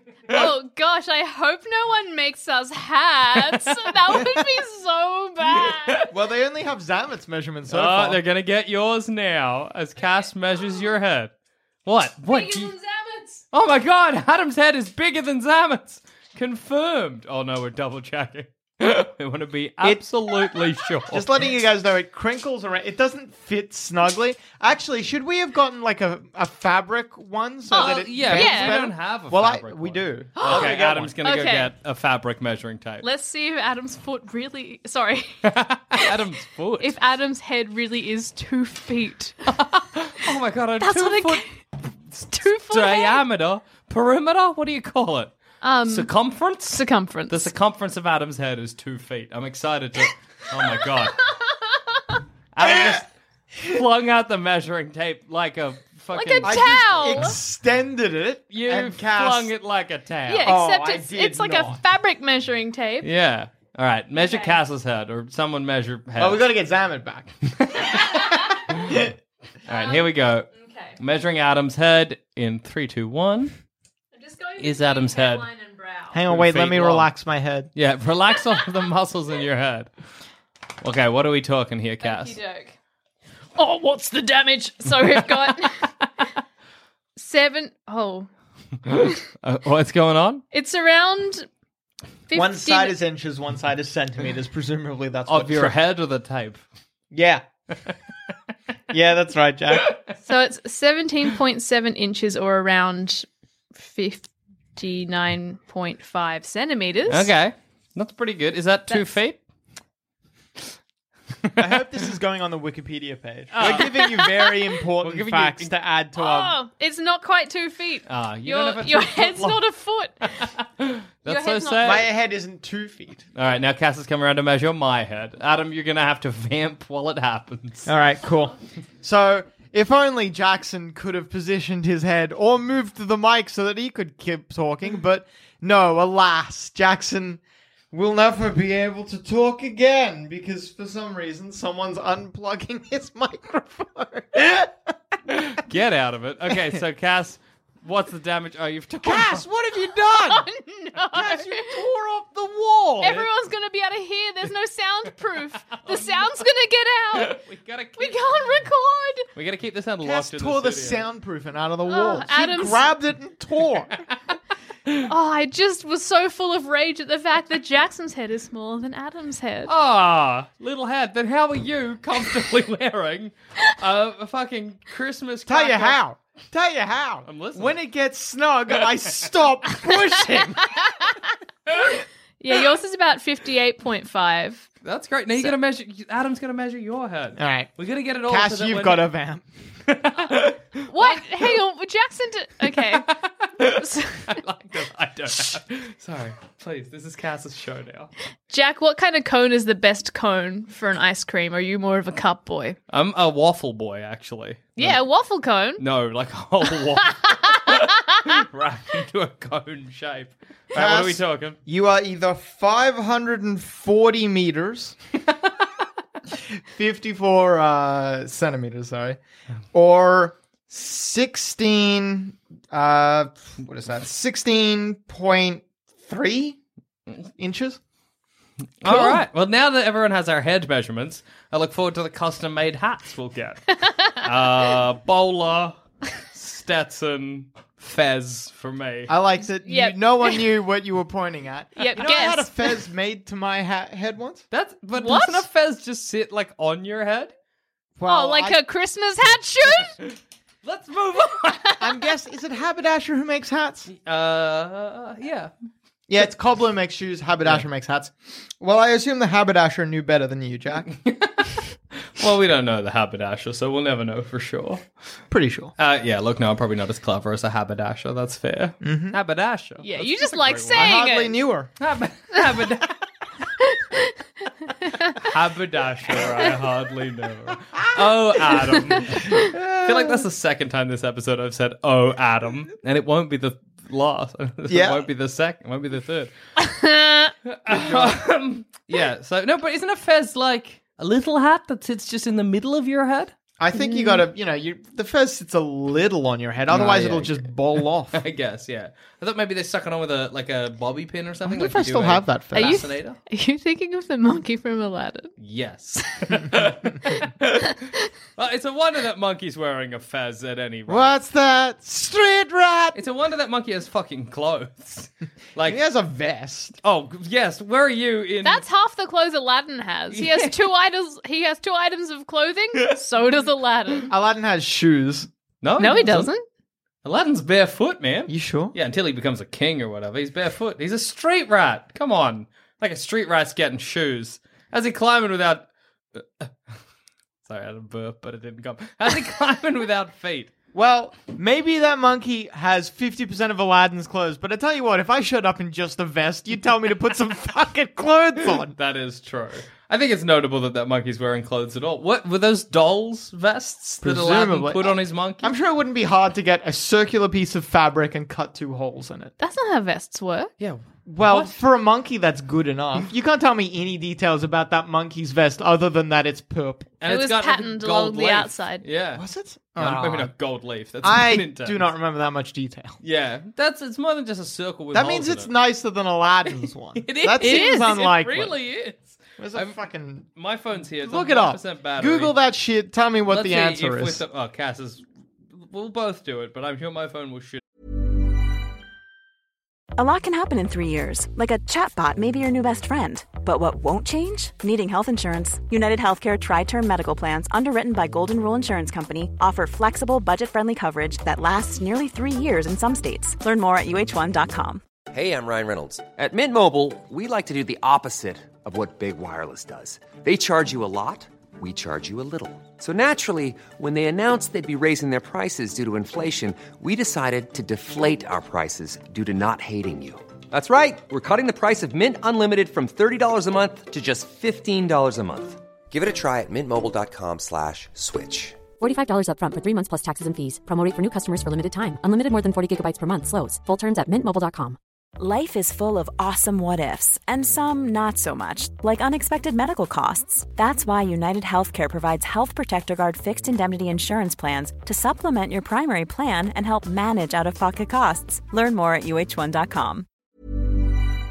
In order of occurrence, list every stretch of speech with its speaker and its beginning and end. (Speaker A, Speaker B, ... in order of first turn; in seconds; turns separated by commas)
Speaker A: 0.3-6.1, Speaker B: 3.5-4.2, Speaker B: 5.6-6.0, Speaker C: 6.1-8.2, Speaker B: 7.7-11.3, Speaker B: 11.8-12.7, Speaker A: 12.3-13.4, Speaker B: 13.5-21.4, Speaker C: 21.1-31.1, Speaker B: 27.7-33.1, Speaker A: 28.2-28.8, Speaker A: 30.4-30.7, Speaker A: 31.2-31.7, Speaker A: 33.0-36.1, Speaker B: 35.4-36.9, Speaker A: 36.8-39.4, Speaker B: 39.5-41.4, Speaker A: 40.8-41.5, Speaker B: 42.1-45.3, Speaker A: 42.3-43.2, Speaker A: 45.6-46.1, Speaker B: 45.9-51.2, Speaker A: 46.7-47.5, Speaker B: 52.5-57.3, Speaker C: 52.6-53.0, Speaker A: 56.1-57.4, Speaker C: 56.4-59.5, Speaker B: 58.5-60.5, Speaker A: 60.3-63.1, Speaker C: 60.4-61.8, Speaker B: 63.0-66.5, Speaker A: 64.2-64.6, Speaker C: 66.2-69.1, Speaker B: 67.6-68.3, Speaker A: 68.0-68.4, Speaker B: 69.7-73.5, Speaker A: 69.7-71.0, Speaker A: 74.1-76.2, Speaker B: 74.6-75.5, Speaker C: 76.1-77.7, Speaker B: 76.2-77.1, Speaker B: 77.7-79.9, Speaker B: 80.8-82.3, Speaker A: 82.0-82.7, Speaker A: 83.5-85.9, Speaker A: 87.2-88.3, Speaker B: 88.9-90.4, Speaker A: 90.5-91.5, Speaker A: 92.3-93.0, Speaker C: 92.3-95.8, Speaker B: 95.3-96.6, Speaker C: 97.1-97.5, Speaker C: 98.9-100.0, Speaker B: 99.8-100.0, Speaker A: 100.2-107.3, Speaker B: 107.1-109.4, Speaker B: 111.5-111.7, Speaker C: 111.6-116.5, Speaker B: 113.5-114.1, Speaker A: 113.6-114.5, Speaker B: 115.0-115.7, Speaker A: 116.2-120.5, Speaker B: 118.0-119.6, Speaker B: 120.4-122.1, Speaker A: 121.2-122.0, Speaker C: 121.8-123.2, Speaker B: 123.3-127.9, Speaker C: 127.8-137.4, Speaker C: 137.9-144.9, Speaker B: 145.3-149.4, Speaker C: 149.0-150.5, Speaker A: 150.1-151.8, Speaker C: 151.1-153.2, Speaker A: 153.0-157.4, Speaker B: 155.7-156.4, Speaker B: 157.1-158.4, Speaker A: 158.0-159.2, Speaker B: 159.3-161.1, Speaker C: 160.0-164.0, Speaker A: 161.9-162.9, Speaker A: 165.0-169.7, Speaker B: 169.7-176.0, Speaker C: 175.5-180.8, Speaker B: 177.2-177.8, Speaker A: 181.8-184.7, Speaker B: 184.8-189.1, Speaker C: 187.4-187.7, Speaker C: 188.2-189.4, Speaker B: 189.9-191.5, Speaker A: 190.9-193.1, Speaker B: 192.7-198.1, Speaker A: 193.6-194.4, Speaker A: 198.5-202.8, Speaker B: 202.9-205.0, Speaker A: 204.8-205.8, Speaker B: 205.8-211.6, Speaker A: 207.2-208.2, Speaker C: 210.7-214.9, Speaker C: 216.3-219.2, Speaker C: 219.7-226.6, Speaker C: 227.4-227.8, Speaker B: 228.8-235.8, Speaker C: 228.8-229.2, Speaker A: 233.8-234.2, Speaker B: 236.3-239.1, Speaker C: 239.1-244.4, Speaker A: 239.6-240.4, Speaker A: 241.8-242.7, Speaker B: 244.5-247.3, Speaker A: 244.9-245.4, Speaker C: 247.9-248.6, Speaker A: 248.1-250.0, Speaker B: 250.6-251.8, Speaker C: 251.8-253.9, Speaker B: 253.9-255.5, Speaker C: 256.1-260.9, Speaker B: 260.9-261.6, Speaker B: 262.2-264.9, Speaker C: 265.3-265.7, Speaker B: 265.8-270.9, Speaker C: 268.8-269.2, Speaker A: 269.8-271.4, Speaker C: 270.7-271.7, Speaker B: 271.8-273.0, Speaker A: 273.6-274.1, Speaker A: 274.6-275.2, Speaker B: 275.2-286.3, Speaker C: 277.9-280.2, Speaker C: 284.7-285.1, Speaker A: 286.6-287.3, Speaker B: 287.5-293.3, Speaker C: 287.7-288.2, Speaker C: 293.6-298.2, Speaker A: 293.7-294.2, Speaker B: 296.7-303.2, Speaker C: 301.4-302.8, Speaker A: 302.5-305.3, Speaker B: 305.4-311.1, Speaker C: 310.9-313.0, Speaker B: 312.9-315.8, Speaker C: 315.6-316.8, Speaker B: 316.8-318.6, Speaker A: 318.4-324.1, Speaker B: 320.1-320.6, Speaker C: 324.1-325.3, Speaker B: 325.6-326.3, Speaker A: 325.8-326.4, Speaker B: 327.0-336.5, Speaker C: 328.3-328.7, Speaker B: 337.4-340.5, Speaker C: 340.7-348.7, Speaker B: 348.7-355.5, Speaker C: 354.0-359.3, Speaker A: 359.4-360.5, Speaker B: 360.6-361.6, Speaker C: 361.1-366.9, Speaker B: 367.0-369.2, Speaker A: 367.1-368.8, Speaker C: 369.1-370.3, Speaker B: 369.8-371.8, Speaker C: 371.0-373.0, Speaker B: 373.0-375.5, Speaker C: 374.9-378.6, Speaker B: 377.0-379.8, Speaker A: 377.4-377.8, Speaker C: 379.4-380.3, Speaker B: 380.4-382.3, Speaker C: 381.0-384.2, Speaker B: 383.3-387.6, Speaker D: 390.0-404.8, Speaker E: 405.1-428.6, Speaker F: 428.8-434.8, Speaker D: 435.2-450.1